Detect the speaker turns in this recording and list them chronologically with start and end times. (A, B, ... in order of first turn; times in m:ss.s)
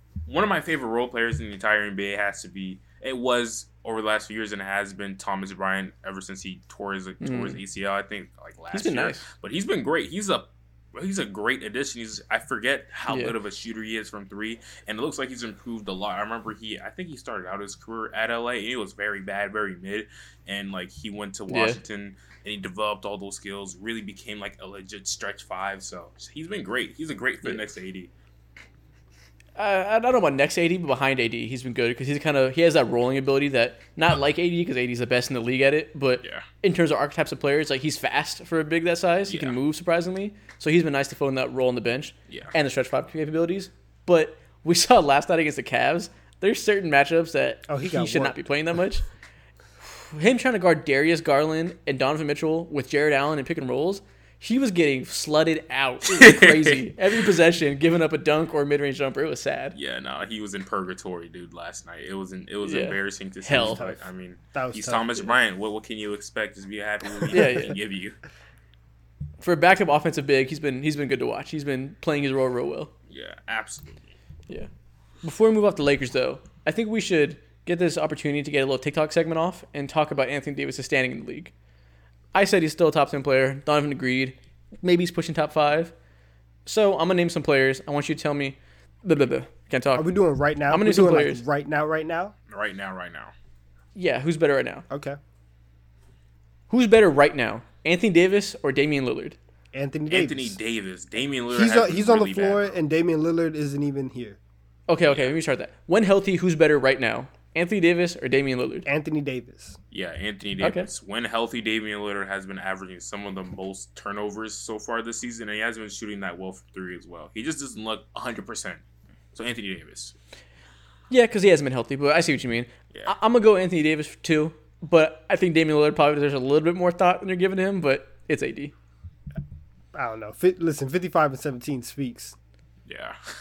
0:00.3-0:28.1 A
0:07.2-0:07.6 B
0:08.7-0:09.2 B
0:13.1-0:13.3 B
0:21.5-0:21.8 B
0:29.6-0:49.0 B
0:39.3-0:39.5 A
0:47.7-0:48.4 C
0:50.0-0:59.8 B
0:56.1-0:56.8 A
0:59.8-1:08.2 A
1:02.6-1:03.8 B
1:03.6-1:04.0 C
1:04.5-1:05.3 C
1:07.3-1:07.8 B
1:09.4-1:12.9 B
1:13.1-1:14.0 A
1:15.2-1:21.5 B
1:22.3-1:25.9 B
1:26.6-1:30.1 B
1:30.0-1:32.3 C
1:30.7-1:31.4 B
1:32.5-1:33.3 A
1:33.9-1:34.9 B
1:34.9-1:35.2 C
1:36.7-1:39.4 B
1:39.7-1:40.6 C
1:40.1-1:42.7 A
1:41.5-1:44.4 C
1:44.9-1:48.9 B
1:45.1-1:45.3 A
1:48.9-1:49.8 C
1:49.9-1:58.8 A
1:50.6-1:50.9 B
1:59.3-2:00.1 A
2:01.1-2:08.7 B
2:09.9-2:12.4 C
2:12.9-2:13.2 A